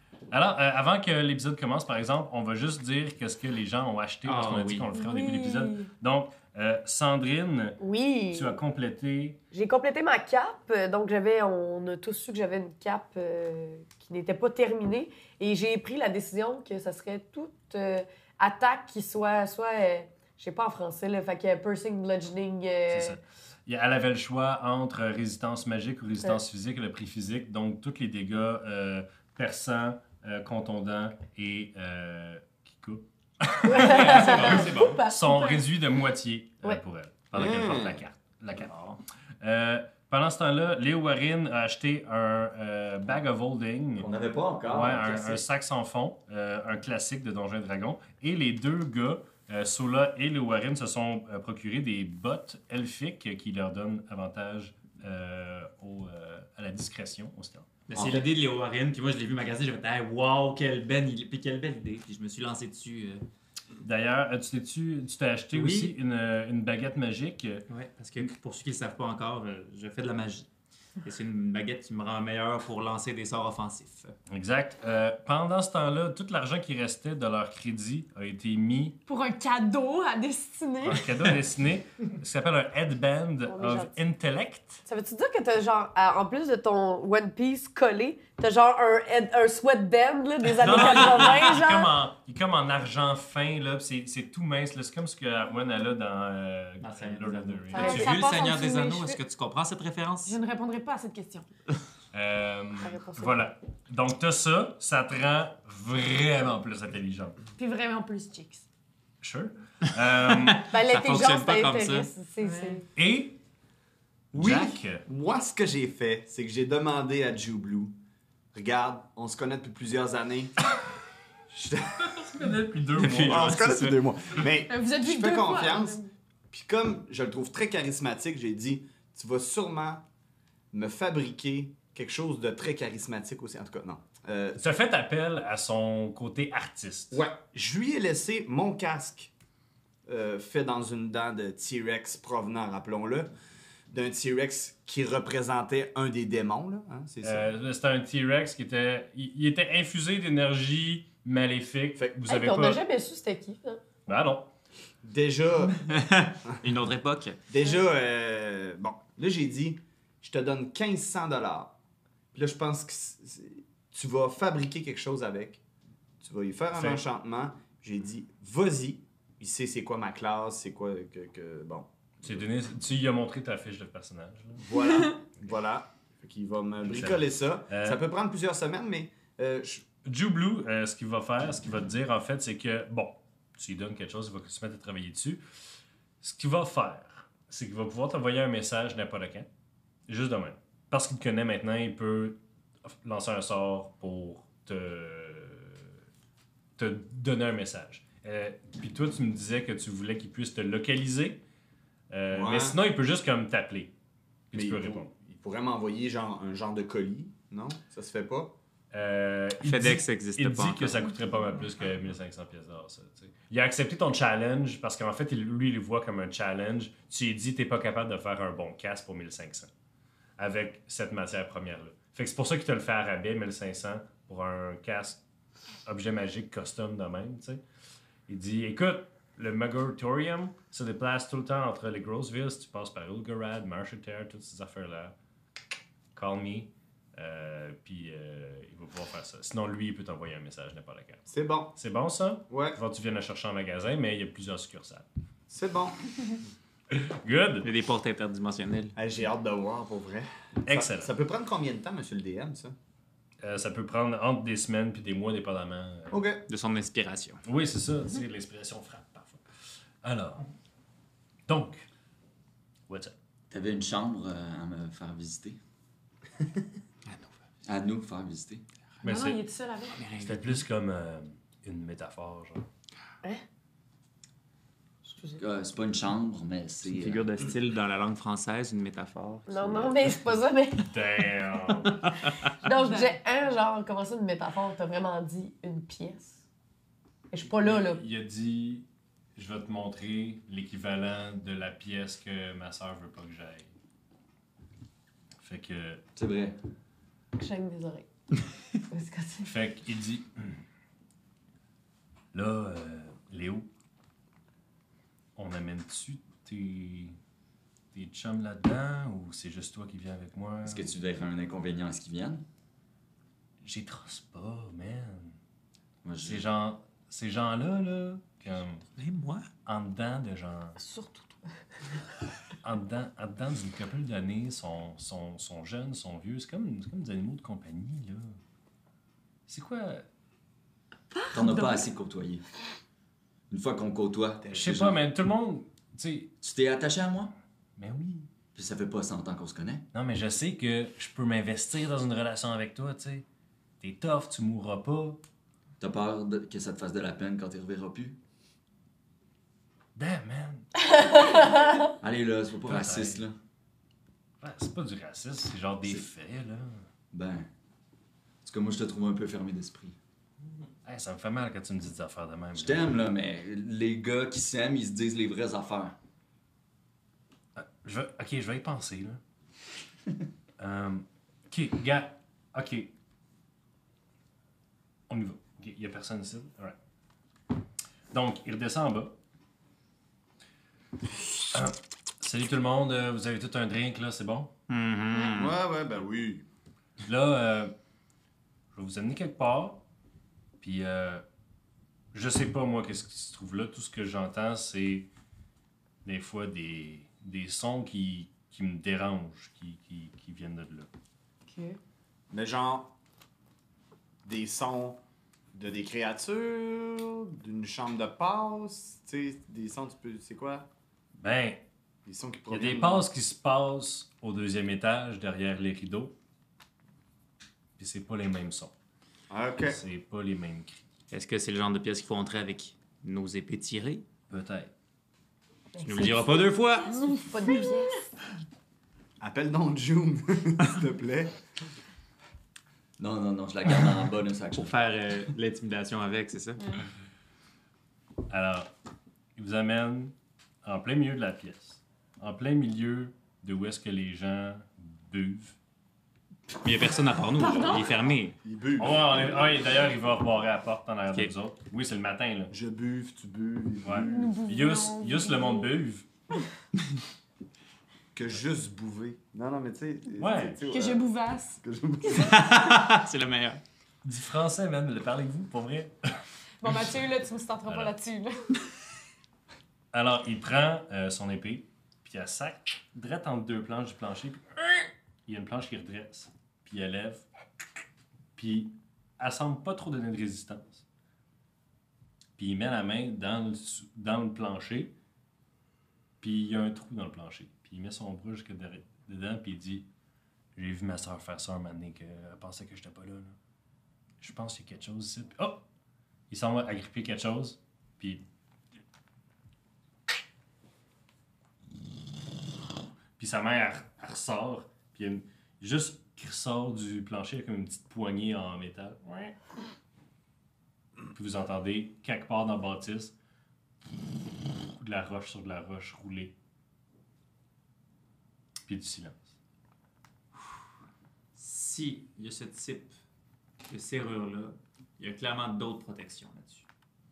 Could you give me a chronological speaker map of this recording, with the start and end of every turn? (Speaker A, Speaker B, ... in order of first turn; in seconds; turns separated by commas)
Speaker A: 0.3-7.8, Speaker B: 4.2-5.0, Speaker C: 4.9-5.8, Speaker D: 7.8-8.6, Speaker A: 8.3-9.4, Speaker D: 9.5-23.2, Speaker A: 22.9-44.1, Speaker B: 33.6-35.0, Speaker D: 33.6-35.6, Speaker E: 37.3-38.0, Speaker F: 44.0-45.4, Speaker A: 44.7-57.7, Speaker B: 57.9-63.2, Speaker F: 58.0-58.2, Speaker A: 63.8-67.7, Speaker B: 65.5-65.9, Speaker B: 67.7-70.5, Speaker B: 71.0-74.1, Speaker A: 74.3-79.0, Speaker C: 79.1-81.0, Speaker A: 80.8-84.8, Speaker D: 83.5-83.9, Speaker D: 84.8-91.9, Speaker B: 90.5-91.3, Speaker A: 90.6-98.0, Speaker B: 96.8-100.4, Speaker C: 97.7-99.2, Speaker D: 97.7-98.2, Speaker C: 100.2-101.5, Speaker A: 102.1-107.4, Speaker D: 102.8-103.4, Speaker C: 107.6-108.6, Speaker A: 109.2-110.7, Speaker B: 110.2-112.1, Speaker D: 110.7-112.9, Speaker C: 112.4-112.8, Speaker A: 113.0-113.4, Speaker E: 114.3-117.9, Speaker A: 114.3-115.0, Speaker E: 118.5-120.5, Speaker E: 121.5-122.3, Speaker A: 122.0-124.4, Speaker E: 122.9-126.0, Speaker C: 124.6-126.1, Speaker E: 126.5-130.0, Speaker E: 130.7-134.6, Speaker A: 134.6-137.3, Speaker E: 137.1-139.3, Speaker E: 140.1-143.3, Speaker E: 143.9-147.5, Speaker A: 147.2-152.8, Speaker D: 152.2-153.8, Speaker A: 154.1-154.5, Speaker E: 155.0-155.9, Speaker B: 155.7-157.4, Speaker E: 157.5-161.7, Speaker E: 162.3-165.6, Speaker E: 166.2-172.4, Speaker A: 166.7-167.0, Speaker A: 172.2-174.7, Speaker E: 174.6-179.8, Speaker A: 176.8-178.0, Speaker A: 180.0-185.4, Speaker A: 186.2-189.5, Speaker A: 190.1-195.8, Speaker A: 196.8-201.4, Speaker A: 202.1-203.9, Speaker E: 202.3-202.8, Speaker A: 204.5-205.1, Speaker E: 204.5-208.5, Speaker A: 208.9-219.7, Speaker B: 209.6-211.1, Speaker A: 220.4-225.2, Speaker A: 225.8-227.6, Speaker A: 228.3-235.1, Speaker A: 236.1-245.1, Speaker E: 241.3-241.7, Speaker E: 242.5-242.8, Speaker E: 245.5-246.0, Speaker A: 246.9-247.7, Speaker B: 247.6-248.9, Speaker E: 248.9-252.8, Speaker A: 250.6-251.1, Speaker A: 253.4-256.2, Speaker E: 256.1-256.4, Speaker B: 256.5-257.4, Speaker A: 257.4-259.4, Speaker A: 260.0-260.5, Speaker A: 261.5-261.8, Speaker A: 262.9-263.1, Speaker F: 263.5-265.6, Speaker B: 267.1-267.3, Speaker F: 267.6-268.6, Speaker A: 269.0-269.4, Speaker C: 269.0-270.0, Speaker B: 269.9-270.6, Speaker A: 270.2-272.6, Speaker F: 275.4-277.3, Speaker B: 276.8-280.1, Speaker D: 279.5-280.9, Speaker A: 280.8-282.0, Speaker D: 282.6-286.4, Speaker C: 282.7-283.1, Speaker D: 287.3-288.0, Speaker A: 287.4-293.7, Speaker A: 295.4-296.0, Speaker F: 296.1-296.6, Speaker D: 297.4-298.1, Speaker D: 298.9-299.5, Speaker A: 299.4-300.6, Speaker A: 302.3-303.7, Speaker A: 305.4-307.2, Speaker A: 307.9-310.9, Speaker F: 310.6-312.4, Speaker A: 313.6-315.4, Speaker F: 316.0-316.5, Speaker A: 316.2-318.9, Speaker B: 318.9-319.5, Speaker A: 319.6-320.8, Speaker D: 320.8-321.2, Speaker A: 322.6-328.4, Speaker A: 329.5-330.0, Speaker C: 331.1-331.9, Speaker F: 331.3-332.4, Speaker F: 333.5-335.0, Speaker E: 334.5-334.9, Speaker A: 334.5-336.3, Speaker F: 336.4-337.3, Speaker A: 337.8-338.3, Speaker F: 338.5-339.8, Speaker A: 339.9-343.2, Speaker A: 343.8-345.2, Speaker F: 345.8-348.2, Speaker A: 349.9-350.9, Speaker F: 351.8-353.4, Speaker A: 352.6-353.2, Speaker A: 354.4-356.9, Speaker F: 357.1-357.5, Speaker F: 358.4-360.0, Speaker A: 360.8-363.0, Speaker F: 362.5-365.9, Speaker A: 367.5-369.2, Speaker A: 370.6-372.9, Speaker A: 375.1-376.8, Speaker A: 378.1-379.1, Speaker A: 381.5-384.5, Speaker B: 384.7-385.6, Speaker E: 385.4-386.4, Speaker A: 387.0-387.7, Speaker A: 388.7-389.8, Speaker A: 390.6-391.2, Speaker A: 392.1-395.1, Speaker A: 396.0-400.9, Speaker C: 401.5-401.8, Speaker E: 402.3-402.9, Speaker E: 404.2-405.0, Speaker E: 405.5-410.7, Speaker A: 411.1-411.6, Speaker E: 412.1-413.1, Speaker A: 412.5-416.1, Speaker A: 417.8-418.7, Speaker E: 419.3-419.8, Speaker A: 419.6-420.8, Speaker B: 421.1-424.1, Speaker A: 424.3-424.7, Speaker D: 425.7-428.0, Speaker B: 425.8-427.0, Speaker C: 427.0-427.8, Speaker E: 429.2-431.4, Speaker F: 433.0-434.7, Speaker B: 434.5-436.8, Speaker A: 438.3-438.7, Speaker A: 439.4-445.6, Speaker B: 446.6-448.4, Speaker C: 447.4-447.9, Speaker E: 448.4-449.6, Speaker A: 448.8-452.5, Speaker E: 452.5-454.4, Speaker A: 453.8-456.1, Speaker C: 454.0-455.7, Speaker E: 458.1-461.0, Speaker A: 460.2-460.6, Speaker C: 460.6-461.6, Speaker E: 461.6-462.4, Speaker B: 462.2-463.6, Speaker A: 464.0-465.9, Speaker C: 466.6-468.6, Speaker A: 467.6-467.9, Speaker A: 469.9-477.2, Speaker A: 478.4-480.8, Speaker A: 482.4-484.9, Speaker A: 486.2-489.9, Speaker A: 490.6-493.4, Speaker A: 494.2-495.6, Speaker A: 496.3-498.2, Speaker A: 503.2-509.4, Speaker A: 511.1-513.1, Speaker A: 514.7-516.3, Speaker A: 518.6-519.3, Speaker B: 521.3-523.0, Speaker B: 523.6-526.6